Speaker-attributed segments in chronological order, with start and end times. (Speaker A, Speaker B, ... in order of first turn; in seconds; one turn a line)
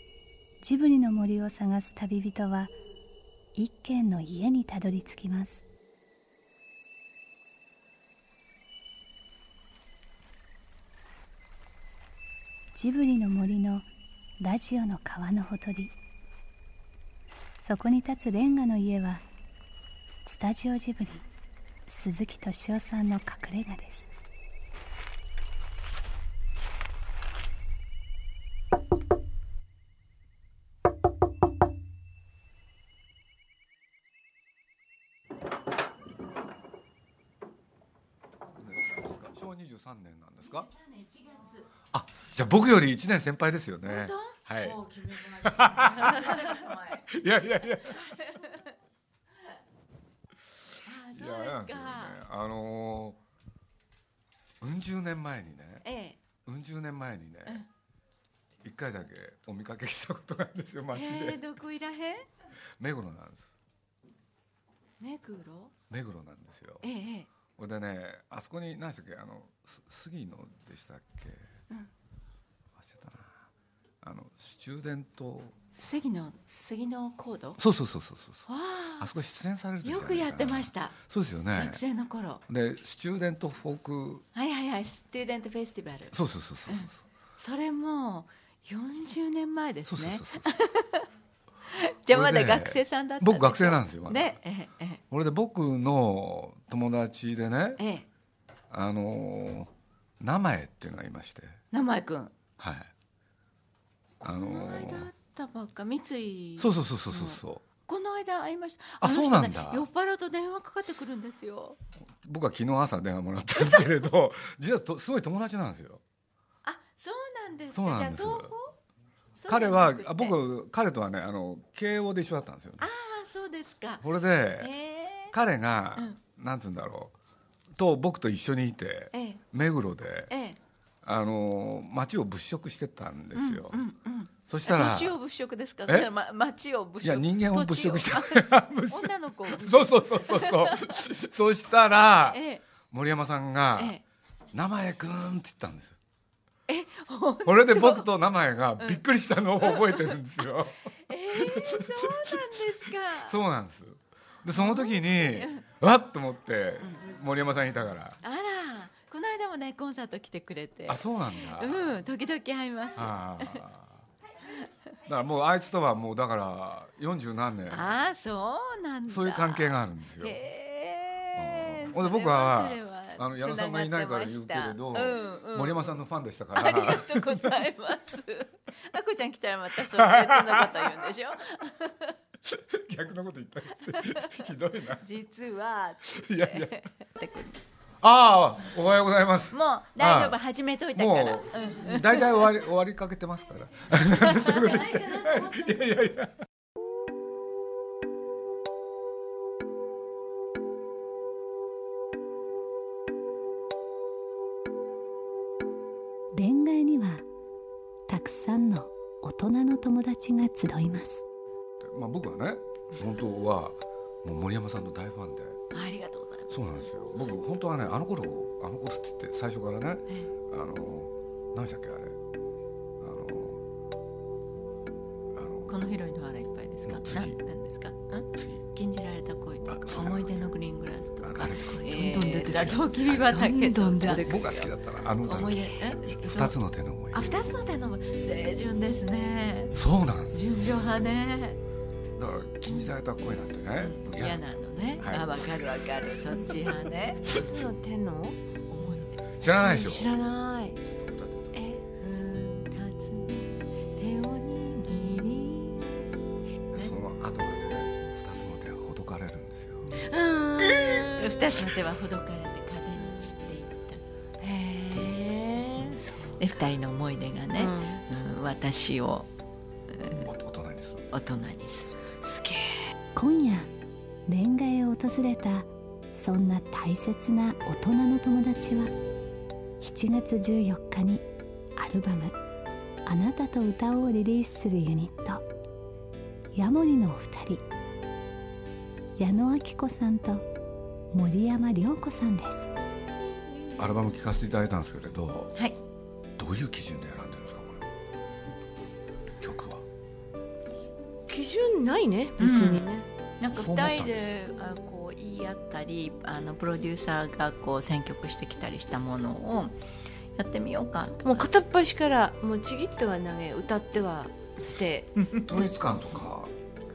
Speaker A: 0.6-2.7
Speaker A: 3.5-5.7
Speaker A: 12.7-13.9
Speaker A: 14.4-15.9
Speaker A: 17.6-19.2
Speaker A: 20.2-21.3
Speaker A: 21.9-24.1
Speaker B: 38.6-40.7
Speaker C: 40.7-41.7
Speaker B: 41.9-48.0
Speaker C: 43.9-47.1
Speaker C: 47.9-48.7
Speaker C: 50.9-52.2
Speaker B: 51.1-53.2
Speaker B: 54.6-55.9
Speaker C: 55.8-56.2
Speaker B: 56.4-57.6
Speaker B: 58.6-61.4
Speaker C: 60.9-62.3
Speaker B: 62.8-63.5
Speaker C: 65.0-65.7
Speaker B: 65.9-66.9
Speaker C: 66.8-67.3
Speaker B: 67.5-71.5
Speaker B: 72.8-73.4
Speaker B: 74.0-75.6
Speaker C: 75.8-77.6
Speaker B: 77.6-78.5
Speaker C: 78.5-79.1
Speaker B: 79.0-81.8
Speaker C: 79.8-81.0
Speaker C: 81.5-82.4
Speaker B: 82.5-84.2
Speaker C: 84.3-91.1
Speaker B: 86.1-87.0
Speaker B: 89.9-90.5
Speaker C: 91.7-95.0
Speaker B: 92.1-94.4
Speaker B: 95.1-97.8
Speaker C: 97.8-98.1
Speaker B: 98.7-101.6
Speaker C: 101.7-102.3
Speaker B: 102.6-102.9
Speaker C: 104.2-111.8
Speaker B: 104.2-105.1
Speaker B: 106.6-107.6
Speaker B: 109.0-109.8
Speaker B: 112.2-116.0
Speaker C: 113.6-113.9
Speaker C: 116.6-118.8
Speaker B: 117.7-118.5
Speaker C: 119.4-120.4
Speaker B: 119.5-122.9
Speaker C: 122.8-124.1
Speaker B: 124.0-124.7
Speaker C: 124.6-125.3
Speaker B: 125.3-127.1
Speaker B: 127.8-130.3
Speaker C: 129.1-129.4
Speaker C: 130.3-130.6
Speaker B: 131.0-133.8
Speaker C: 133.3-141.0
Speaker B: 134.5-135.2
Speaker B: 137.0-144.0
Speaker C: 142.3-142.7
Speaker C: 143.8-144.0
Speaker B: 144.5-146.0
Speaker C: 146.7-148.1
Speaker B: 147.5-150.8
Speaker C: 149.6-150.2
Speaker C: 151.1-153.4
Speaker B: 151.3-152.6
Speaker B: 153.3-158.2
Speaker C: 154.5-155.6
Speaker C: 158.2-163.6
Speaker B: 160.9-162.0
Speaker B: 163.0-164.0
Speaker B: 165.1-167.9
Speaker C: 167.7-176.0
Speaker B: 169.1-170.4
Speaker B: 171.3-177.6
Speaker C: 176.6-182.2
Speaker B: 179.9-180.8
Speaker B: 182.4-185.1
Speaker C: 183.9-184.5
Speaker C: 185.0-187.6
Speaker B: 186.1-186.7
Speaker B: 188.0-190.4
Speaker C: 189.5-192.6
Speaker B: 190.9-196.4
Speaker C: 194.2-195.4
Speaker A: 206.3-207.2
Speaker A: 208.1-211.2
Speaker B: 211.8-215.6
Speaker C: 215.7-216.8
Speaker B: 216.5-222.2
Speaker B: 223.0-223.6
Speaker B: 225.3-225.8
Speaker C: 225.7-234.4
Speaker B: 226.8-227.4
Speaker B: 228.3-228.6
Speaker B: 229.7-230.5
Speaker B: 231.2-231.9
Speaker D: 231.8-234.7
Speaker B: 234.0-237.3
Speaker C: 235.2-236.6
Speaker D: 235.3-235.8
Speaker C: 237.1-239.8
Speaker B: 239.7-240.4
Speaker C: 240.3-241.6
Speaker B: 242.2-244.4
Speaker C: 243.8-247.4
Speaker B: 245.0-245.3
Speaker B: 246.5-247.5
Speaker D: 247.3-248.4
Speaker C: 248.7-249.3
Speaker B: 249.3-250.1
Speaker D: 249.4-250.8
Speaker B: 250.8-251.6
Speaker D: 251.5-252.7
Speaker C: 252.7-256.1
Speaker B: 256.7-259.9
Speaker D: 259.9-261.5
Speaker B: 260.6-261.1
Speaker C: 261.2-264.0
Speaker D: 264.4-266.4
Speaker C: 265.6-269.3
Speaker D: 267.6-268.0
Speaker C: 269.9-270.3
Speaker B: 270.1-271.1
Speaker C: 271.1-272.0
Speaker D: 272.2-272.9
Speaker A: 273.1-273.7
Speaker A: 274.3-278.9
Speaker A: 279.8-281.2
Speaker A: 281.8-282.3
Speaker A: 283.1-285.4
Speaker A: 286.5-287.6
Speaker A: 289.2-290.4
Speaker A: 291.1-292.7
Speaker B: 293.8-295.5
Speaker B: 296.4-297.8
Speaker B: 299.4-299.8
Speaker D: 301.3-303.1
Speaker C: 302.4-302.9
Speaker C: 303.4-309.8
Speaker B: 303.5-304.2
Speaker C: 310.4-311.5
Speaker D: 311.2-315.1
Speaker C: 315.2-315.5
Speaker B: 315.4-316.5